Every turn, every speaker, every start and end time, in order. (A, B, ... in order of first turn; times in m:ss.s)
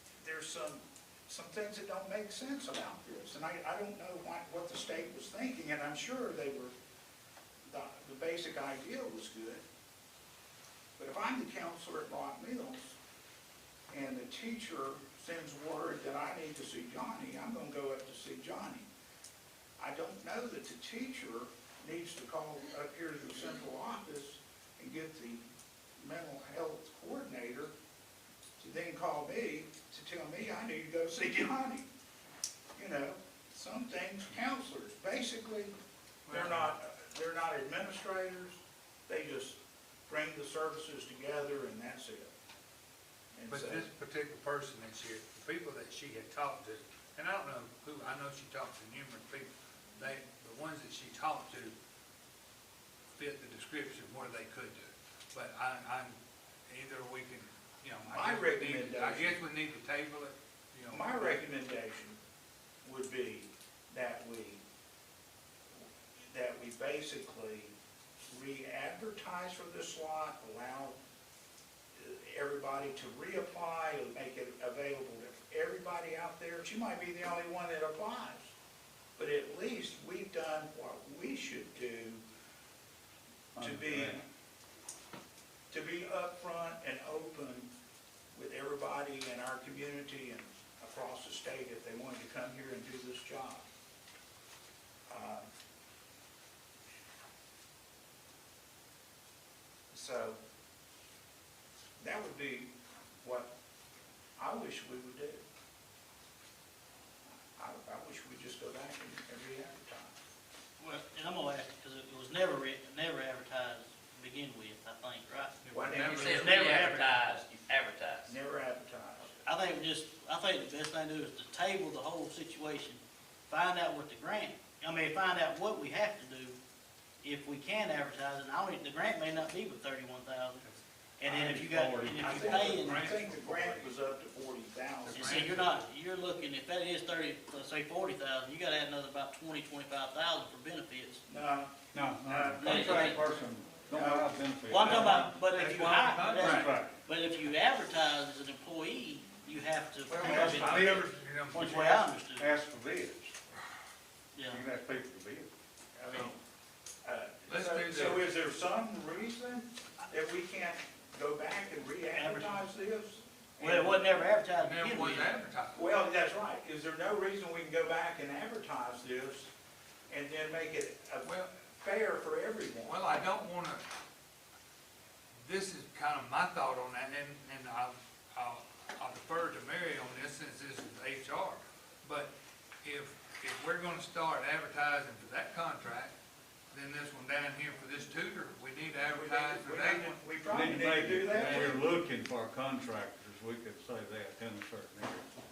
0:00.2-0:06.7 A
0:07.7-0:09.6 A
0:11.0-0:13.0 A
0:13.9-0:18.9 A
0:19.8-0:25.4 A
0:26.0-0:27.7 A
0:28.6-0:31.9 A
0:32.8-0:35.8 A
0:36.3-0:36.7 B
0:36.3-0:42.3 A
0:43.3-0:43.9 A
0:43.5-0:51.8 B
0:53.2-0:56.2 B
0:56.7-1:01.4 B
0:58.1-0:59.4 A
1:00.9-1:02.2 A
1:02.8-1:04.6 A
1:06.3-1:07.8 A
1:08.3-1:11.0 A
1:12.0-1:18.5 A
1:19.2-1:22.2 A
1:23.6-1:24.2 C
1:23.6-1:24.3 A
1:25.7-1:27.7 A
1:28.3-1:33.7 A
1:35.1-1:35.5 A
1:39.9-1:40.4 A
1:42.0-1:42.7 A
1:43.2-1:43.5 A
1:44.4-1:45.4 A
1:47.6-1:50.2 A
1:50.8-1:57.2 D
1:55.6-1:56.9 B
1:55.7-1:56.6 A
1:56.1-1:58.4 E
1:58.3-1:59.4 A
1:59.4-2:06.6 D
2:07.2-2:10.6 D
2:11.2-2:13.1 D
2:11.2-2:12.2 C
2:12.1-2:13.9 B
2:12.2-2:15.7 A
2:15.0-2:15.8 B
2:15.1-2:21.2 D
2:21.3-2:23.2 A
2:21.9-2:25.2 C
2:22.6-2:23.2 D
2:22.7-2:23.2 E
2:23.9-2:24.4 A
2:24.7-2:32.5 D
2:24.8-2:26.8 B
2:26.4-2:27.0 C
2:30.1-2:31.0 C
2:30.1-2:32.1 B
2:32.4-2:33.4 C
2:34.4-2:34.6 D
2:34.5-2:35.5 C
2:36.0-2:36.4 A
2:37.0-2:44.1 A
2:37.5-2:38.3 B
2:42.1-2:42.7 D
2:43.6-2:45.3 D
2:44.6-2:45.9 B
2:45.8-2:49.5 A
2:50.1-2:53.1 A
2:51.2-2:51.5 B
2:52.8-2:53.8 B
2:55.4-3:06.1 B
3:06.7-3:10.2 B
3:09.1-3:11.8 A
3:10.5-3:15.3 C
3:11.3-3:11.7 B